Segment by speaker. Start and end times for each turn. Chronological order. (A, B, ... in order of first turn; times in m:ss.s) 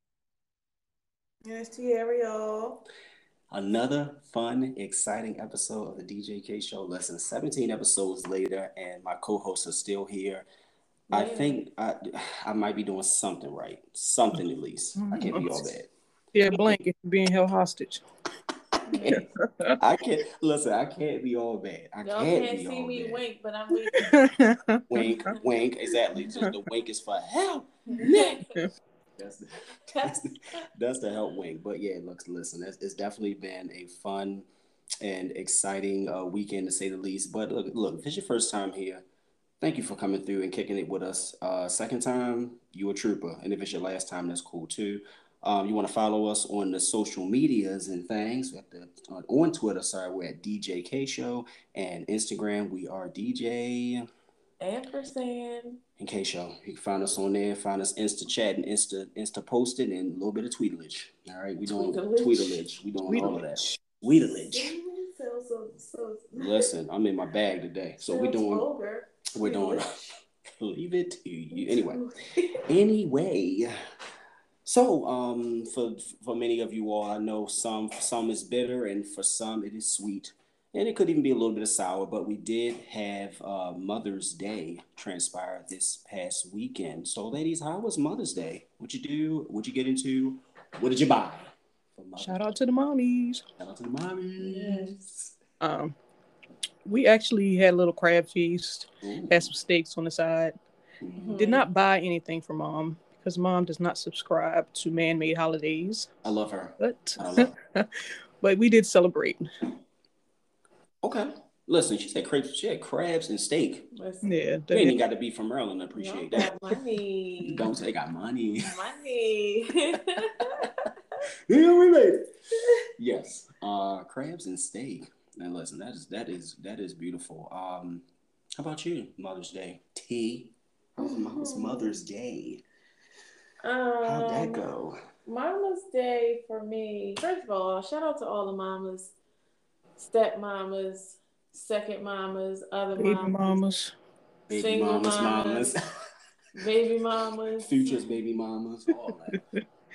0:01.4-0:02.8 A
0:03.5-0:10.4 B
0:11.1-0:11.6 A
0:11.1-0:15.9 B
0:15.0-0:15.6 C
0:16.3-0:18.0 C
0:18.9-0:19.3 A
0:18.9-0:19.2 B
0:19.1-0:19.8 C
0:19.8-0:23.2 B
0:22.0-0:24.2 A
0:23.8-0:25.3 C
0:24.9-0:28.4 B
0:26.2-0:26.5 C
0:27.9-0:28.7 A
0:28.0-0:28.7 C
0:29.2-0:34.5 B
0:29.9-0:30.2 A
0:35.0-0:39.0 B
0:39.6-0:54.1 B
0:54.6-0:55.8 A
0:56.0-1:04.7 B
1:01.7-1:02.6 A
1:03.1-1:03.4 C
1:03.2-1:03.4 A
1:04.5-1:06.7 A
1:06.3-1:08.7 B
1:08.1-1:10.2 A
1:09.3-1:09.9 B
1:10.6-1:12.0 B
1:11.5-1:12.6 A
1:12.6-1:13.7 B
1:14.6-1:32.5 B
1:32.2-1:33.4 C
1:33.6-1:35.3 B
1:34.4-1:35.1 A
1:35.6-1:36.0 C
1:36.8-1:40.5 C
1:39.0-1:39.5 B
1:41.0-1:41.4 B
1:41.2-1:41.7 A
1:41.4-1:46.1 C
1:46.2-1:47.5 B
1:46.8-1:49.4 C
1:51.0-1:53.9 B
1:53.9-1:54.3 A
1:54.2-1:55.0 C
1:54.7-1:56.5 B
1:56.0-1:57.7 A
1:57.4-1:58.8 B
1:58.6-2:00.8 A
2:00.3-2:00.7 B
2:01.5-2:02.2 B
2:03.0-2:08.0 B
2:08.6-2:12.6 B
2:11.0-2:11.9 A
2:13.6-2:14.7 A
2:14.0-2:15.0 B
2:15.2-2:19.1 A
2:20.0-2:23.6 A
2:23.0-2:23.9 C
2:24.5-2:25.8 B
2:24.5-2:25.7 A
2:26.5-2:28.0 A
2:27.6-2:29.4 B